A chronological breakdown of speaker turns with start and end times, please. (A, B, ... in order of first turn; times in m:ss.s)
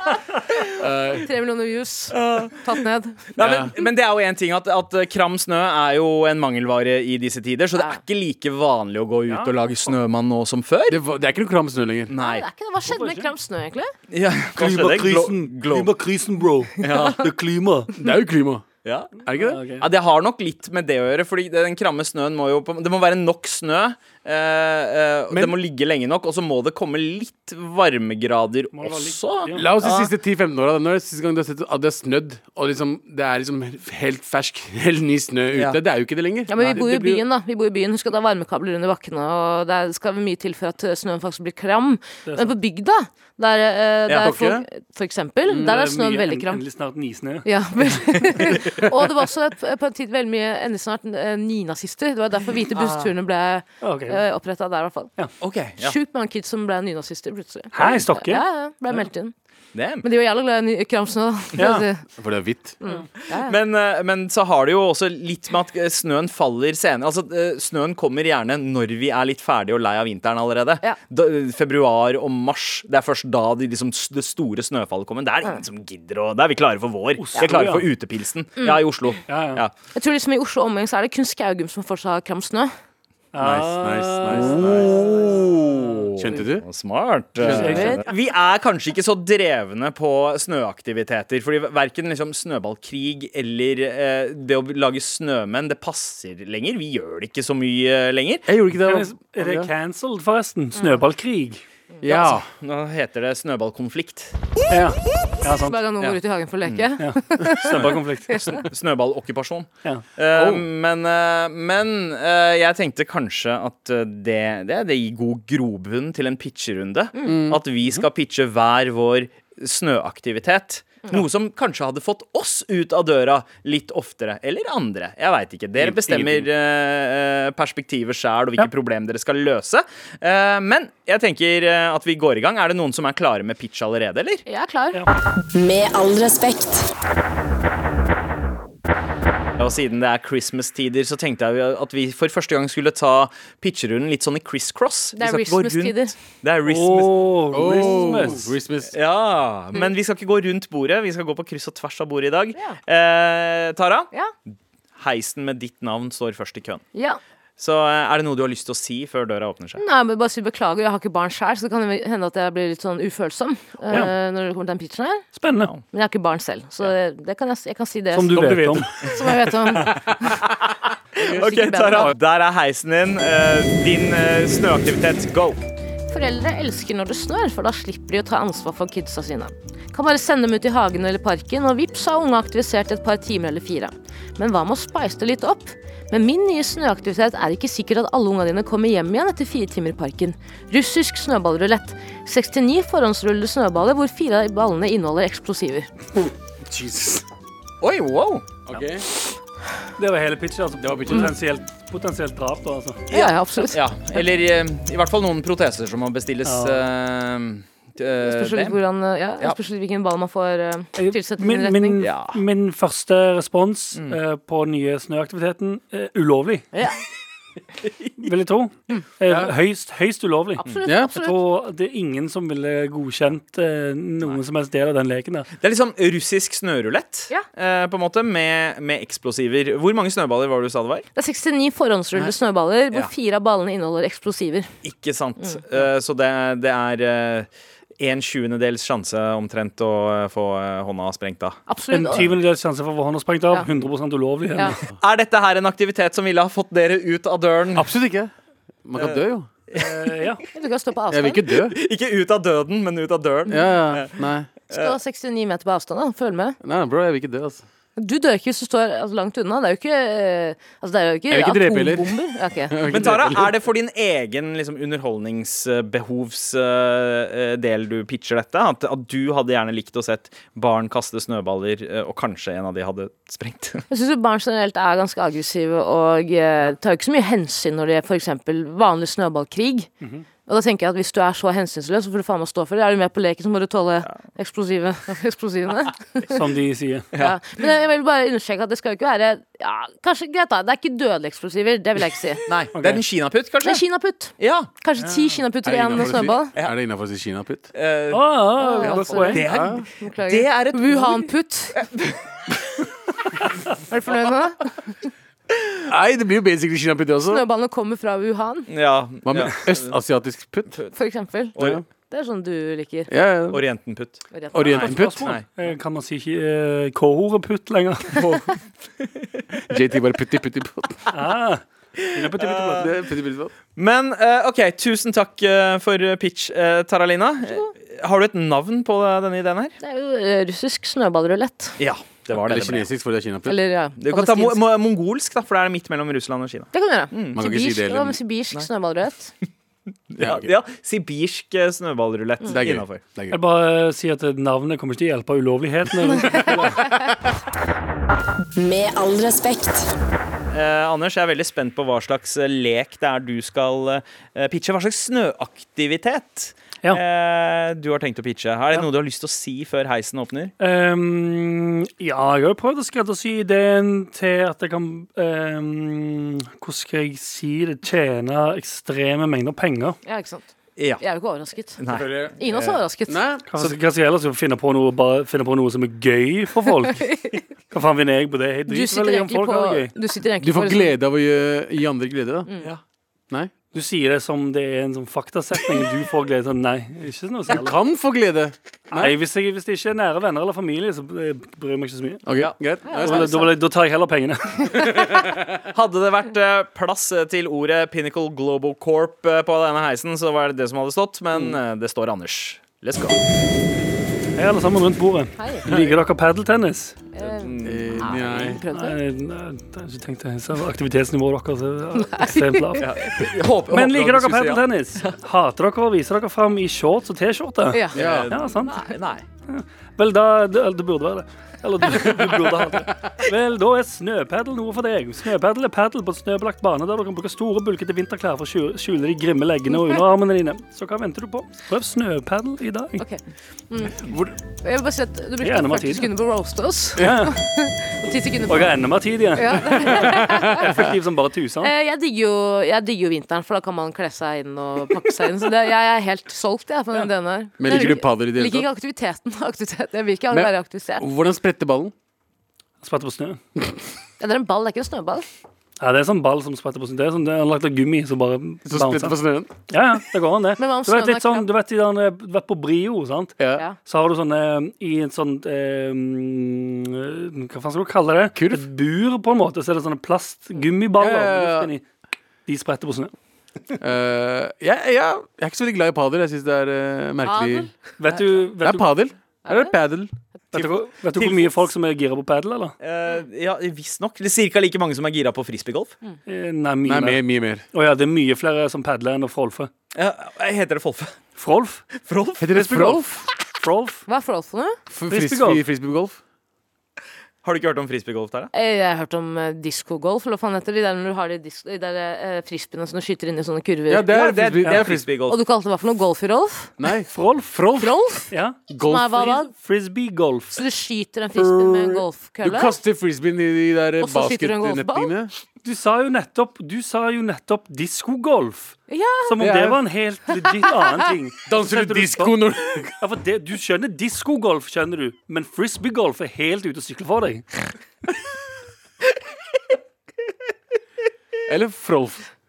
0:00.8-0:01.3 A
0:01.2-0:03.2 B
0:02.1-0:02.7 C
0:03.3-0:11.0 C
0:03.4-0:03.7 A
0:09.3-0:09.6 D
0:10.9-0:12.1 A
0:12.1-0:12.4 C
0:12.2-0:13.9 B
0:12.9-0:13.3 D
0:14.1-0:15.9 C
0:14.6-0:17.9 D
0:16.8-0:17.2 C
0:18.0-0:18.6 A
0:18.8-0:19.2 C
0:19.2-0:19.6 A
0:19.4-0:19.9 D
0:19.8-0:30.1 C
0:25.3-0:25.6 A
0:28.7-0:29.7 D
0:29.5-0:36.7 A
0:35.5-0:35.8 C
0:36.5-0:46.6 B
0:36.6-0:37.2 D
0:42.2-0:42.5 D
0:44.1-0:44.3 C
0:44.1-0:44.6 A
0:45.5-0:45.8 A
0:45.6-0:48.1 D
0:47.4-0:55.1 B
0:53.8-0:54.2 D
0:55.4-0:56.0 C
0:55.8-0:59.3 B
0:57.7-0:59.0 D
0:59.7-1:00.0 C
1:00.0-1:02.0 B
1:01.6-1:01.9 D
1:02.2-1:02.8 A
1:02.8-1:03.6 B
1:03.3-1:19.7 C
1:17.2-1:17.8 D
1:18.6-1:18.8 B
1:19.3-1:19.6 D
1:19.9-1:22.7 B
1:23.3-1:25.4 D
1:23.4-1:24.9 A
1:24.3-1:38.5 C
1:26.2-1:26.6 A
1:27.4-1:27.8 A
1:27.4-1:28.0 D
1:27.5-1:28.0 B
1:38.4-1:39.7 A
1:38.7-1:41.6 D
1:42.0-1:42.4 A
1:42.6-1:44.3 C
1:44.7-1:45.8 D
1:45.6-1:48.6 B
1:46.0-1:46.8 C
1:47.0-1:48.5 D
1:47.8-2:14.4 C
1:50.3-1:50.6 A
1:57.2-1:57.6 A
2:05.8-2:06.5 A
2:14.4-2:15.0 B
2:15.5-2:16.9 E
2:19.6-2:28.3 C
2:25.1-2:26.1 B
2:26.6-2:28.5 D
2:27.5-2:28.9 A
2:28.9-2:34.1 C
2:35.0-2:36.8 C
2:36.9-2:37.2 B
2:37.6-2:39.8 C
2:39.8-2:45.3 B
2:45.3-2:45.7 D
2:45.5-2:45.8 C
2:45.9-2:50.3 B
2:48.1-2:48.9 D
2:48.3-2:48.9 A
2:49.8-2:50.6 C
2:51.2-2:55.6 C
2:51.2-2:51.5 A
2:51.3-2:52.1 B
2:56.1-3:15.9 B
3:16.6-3:17.2 A
3:17.8-3:18.5 C
3:18.6-3:19.0 A
3:20.0-3:23.0 D
3:20.8-3:21.3 A
3:23.1-3:23.8 B
3:23.1-3:28.8 C
3:26.4-3:26.9 D
3:28.2-3:32.0 B
3:31.0-3:36.7 D
3:32.0-3:32.4 C
3:37.8-3:38.1 C
3:38.2-3:40.6 D
3:39.3-3:39.5 A
3:40.6-3:41.4 B
3:40.8-3:41.1 A
3:41.1-3:45.5 D
3:45.6-3:51.0 C
3:51.2-3:54.7 B
3:54.8-3:57.5 C
3:58.0-4:01.6 C
4:01.7-4:02.3 B
4:01.9-4:04.8 D
4:04.9-4:07.9 C
4:07.7-4:08.3 A
4:08.8-4:09.5 A
4:09.0-4:10.1 C
4:09.8-4:10.4 D
4:10.5-4:11.4 B
4:11.1-4:11.8 A
4:11.5-4:14.2 C
4:13.5-4:14.5 A
4:14.7-4:15.0 C
4:14.7-4:16.6 B
4:16.6-4:17.6 A
4:18.0-4:22.9 B
4:21.3-4:23.6 A
4:22.8-4:33.8 C
4:33.9-4:39.9 B
4:40.0-4:40.2 D
4:40.5-4:46.3 B
4:46.3-4:47.1 D
4:47.1-4:52.5 B
4:52.5-4:53.8 C
4:52.7-4:53.0 D
4:53.6-4:56.5 B
4:54.4-4:54.7 C
4:55.0-4:55.4 D
4:55.6-4:57.7 A
4:57.7-5:02.2 C
4:58.1-4:59.4 D
4:58.6-5:01.8 B
4:59.4-4:59.8 A
5:03.9-5:04.9 B
5:05.9-5:07.4 A
5:07.3-5:08.7 B
5:08.7-5:10.0 C
5:09.2-5:10.8 A
5:10.9-5:11.5 B
5:11.6-5:11.8 C
5:11.6-5:11.8 A
5:12.1-5:13.1 B
5:13.1-5:13.6 A
5:13.5-5:15.4 C
5:14.3-5:14.9 B
5:14.5-5:15.3 A
5:14.8-5:18.3 D
5:18.1-5:19.4 C
5:19.7-5:21.0 A
5:21.1-5:22.9 D
5:22.0-5:22.9 C
5:22.7-5:23.5 A
5:23.7-5:29.8 C
5:29.8-5:31.8 B
5:31.8-5:32.9 C
5:32.3-5:33.6 A
5:33.4-5:34.6 B
5:34.0-5:37.4 C
5:36.7-5:39.3 B
5:37.3-5:38.2 A
5:40.1-5:43.0 C
5:40.2-5:40.5 A
5:42.5-5:43.4 A
5:43.3-5:46.9 D
5:48.6-5:49.9 E
5:50.5-6:00.5 C
6:00.6-6:10.0 D
6:10.0-6:11.8 B
6:10.8-6:11.0 C
6:11.8-6:12.8 C
6:11.9-6:12.4 A
6:12.4-6:13.2 B
6:13.1-6:13.5 A
6:13.5-6:17.1 D
6:16.9-6:17.4 B
6:17.7-6:19.9 D
6:18.7-6:20.9 B
6:20.4-6:22.5 A
6:23.7-6:27.7 D
6:27.5-6:29.2 A
6:28.9-6:32.2 D
6:32.2-6:33.5 A
6:32.8-6:33.5 B
6:33.0-6:34.9 D
6:34.7-6:35.6 A
6:35.7-6:43.2 C
6:44.4-6:47.0 D
6:45.4-6:45.7 B
6:47.1-6:49.0 B
6:47.2-6:48.6 C
6:47.6-6:48.6 A
6:48.7-6:52.9 D
6:52.0-6:52.6 B
6:52.8-6:55.1 C
6:53.7-6:58.9 D
6:57.7-6:58.0 B
6:57.9-6:58.3 A
6:57.9-6:59.2 C
6:59.5-7:13.0 D
7:13.0-7:14.0 B
7:14.0-7:14.3 A
7:14.6-7:18.7 B
7:15.4-7:16.1 D
7:17.0-7:17.3 A
7:17.0-7:17.3 D
7:18.5-7:21.7 D
7:19.4-7:20.8 B
7:20.0-7:20.7 A
7:21.6-7:31.0 B
7:27.6-7:28.7 A
7:30.3-7:31.9 A
7:32.8-7:33.4 D
7:34.2-7:35.2 B
7:35.8-7:39.2 D
7:38.7-7:39.5 A
7:39.7-7:51.8 D
7:40.6-7:41.5 B
7:43.4-7:43.6 A
7:48.3-7:48.6 A
7:51.0-7:51.7 A
7:52.5-7:53.1 D
7:53.8-7:57.7 A
7:57.2-7:57.7 B
7:58.0-7:58.9 D
7:58.6-8:00.1 A
7:59.4-7:59.7 B
8:00.5-8:02.8 D
8:00.5-8:01.6 C
8:02.8-8:05.9 C
8:06.3-8:07.2 D
8:06.8-8:07.6 A
8:07.7-8:09.7 D
8:09.9-8:11.1 C
8:11.4-8:11.8 D
8:12.0-8:12.9 C
8:12.4-8:13.3 A
8:12.5-8:13.0 D
8:13.6-8:14.0 D
8:14.1-8:14.8 B
8:14.9-8:16.2 A
8:15.1-8:15.6 D
8:17.4-8:18.5 C
8:18.5-8:24.1 B
8:23.9-8:25.1 A
8:24.1-8:25.4 C
8:25.3-8:26.7 B
8:26.8-8:27.9 A
8:27.1-8:27.5 D
8:27.8-8:28.3 B
8:28.3-8:28.6 D
8:28.7-8:29.3 A
8:28.8-8:29.5 B
8:29.3-8:30.6 D
8:30.5-8:32.8 B
8:31.3-8:35.3 A
8:34.0-8:35.1 B
8:35.6-8:42.3 D
8:38.9-8:39.4 B
8:39.4-8:39.8 A
8:40.3-8:40.6 B
8:41.4-8:42.9 A
8:43.0-8:47.7 D
8:51.4-8:52.3 A